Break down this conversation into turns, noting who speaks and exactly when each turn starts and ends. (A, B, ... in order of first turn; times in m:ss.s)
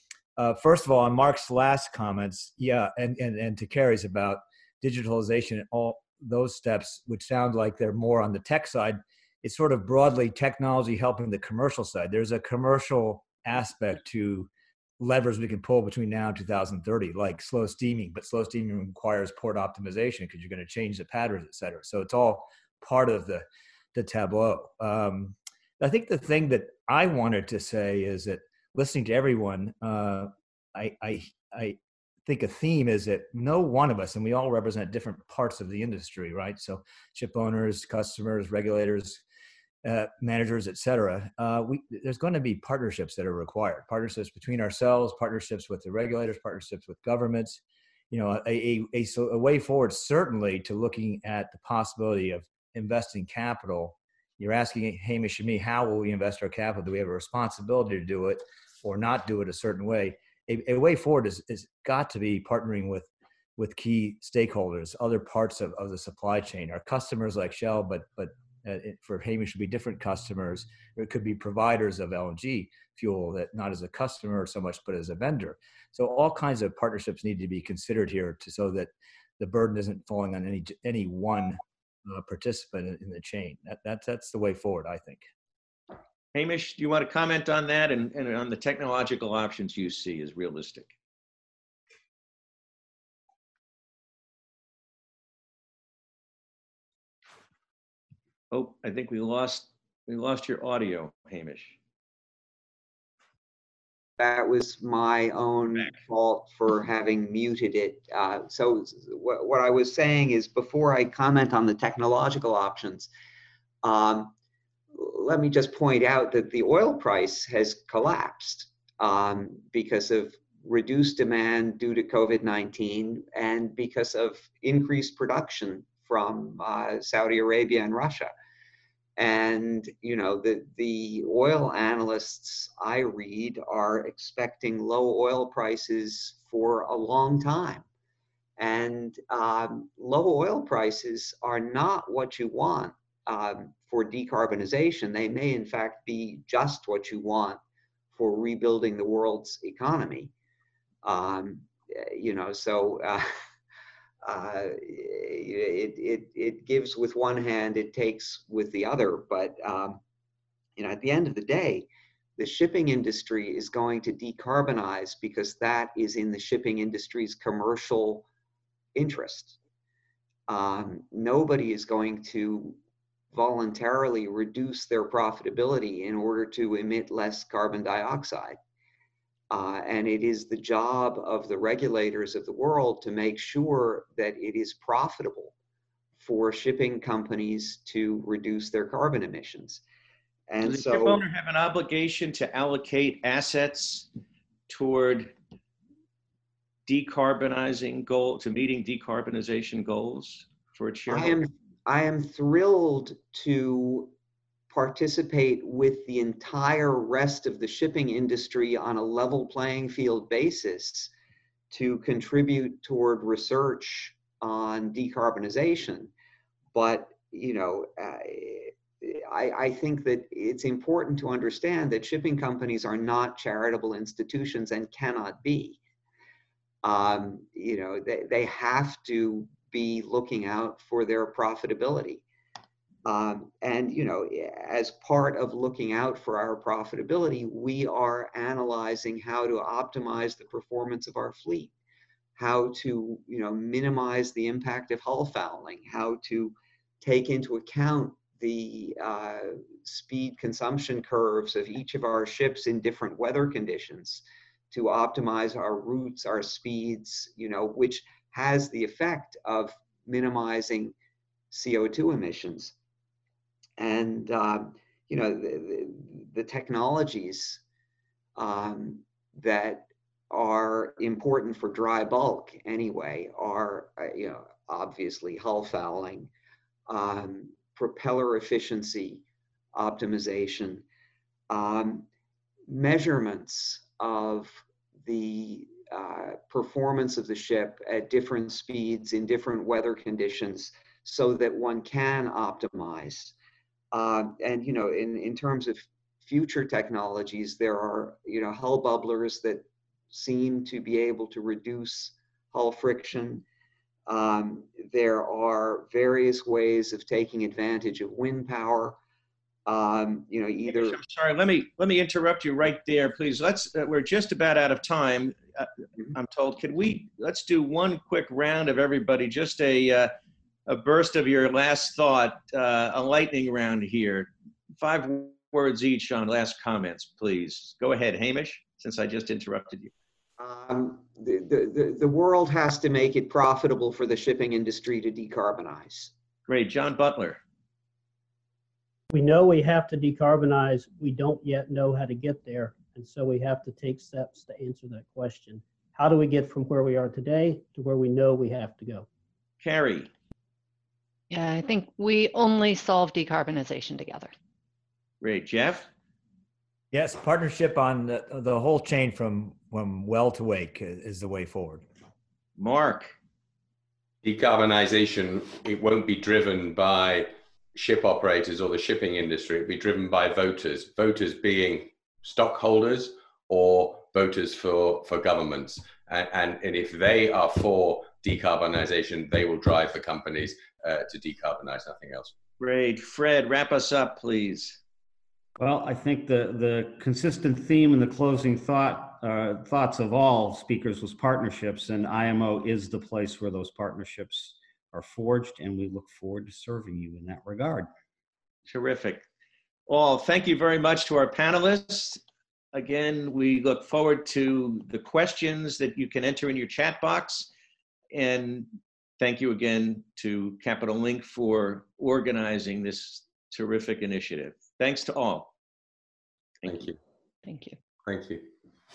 0:00.4-0:39.2 A
0:39.8-0:47.6 A
0:48.1-1:25.2 A
1:26.3-1:30.9 B
1:38.5-1:41.8 B
1:44.2-1:53.1 C
1:53.8-1:54.3 C
1:54.9-2:08.3 C
2:09.2-2:17.8 C
2:18.6-2:27.6 C
2:28.1-2:30.3 C
2:31.0-2:33.3 C
2:34.2-2:40.0 C
2:40.8-2:48.2 C
2:48.9-2:49.6 C
2:50.5-2:52.8 C
2:53.3-2:58.6 C
2:59.5-3:05.5 C
3:06.2-3:09.8 C
3:10.5-3:11.2 C
3:10.6-3:14.1 B
3:14.7-3:15.3 B
3:16.8-3:21.4 B
3:21.1-3:24.1 C
3:24.7-3:31.1 C
3:31.7-3:36.1 C
3:36.7-3:45.8 C
3:46.8-3:52.2 C
3:53.0-4:01.7 C
4:02.4-4:20.9 C
4:21.5-4:22.7 C
4:23.8-4:27.6 C
4:28.4-4:36.3 C
4:36.9-4:39.2 C
4:39.7-4:40.8 C
4:41.5-4:42.1 C
4:42.7-4:53.3 C
4:53.9-5:03.4 C
5:04.1-5:09.0 C
5:09.6-5:11.0 C
5:10.7-5:20.1 B
5:20.7-5:29.9 B
5:30.4-5:36.1 C
5:36.5-5:37.4 B
5:39.1-5:49.1 D
5:49.6-5:50.1 B
5:51.3-5:54.3 E
5:55.2-5:55.9 B
5:56.9-6:01.8 A
6:02.6-6:03.1 B
6:04.2-6:22.3 F
6:22.6-6:24.8 B
6:25.6-6:37.9 G
6:38.7-6:39.2 B
6:39.9-6:42.2 B
6:42.7-6:47.5 B
6:48.1-6:48.7 B
6:49.2-6:55.5 B
6:56.6-6:56.9 B
6:56.6-6:57.0 F
6:57.4-6:57.8 E
6:58.0-6:58.5 F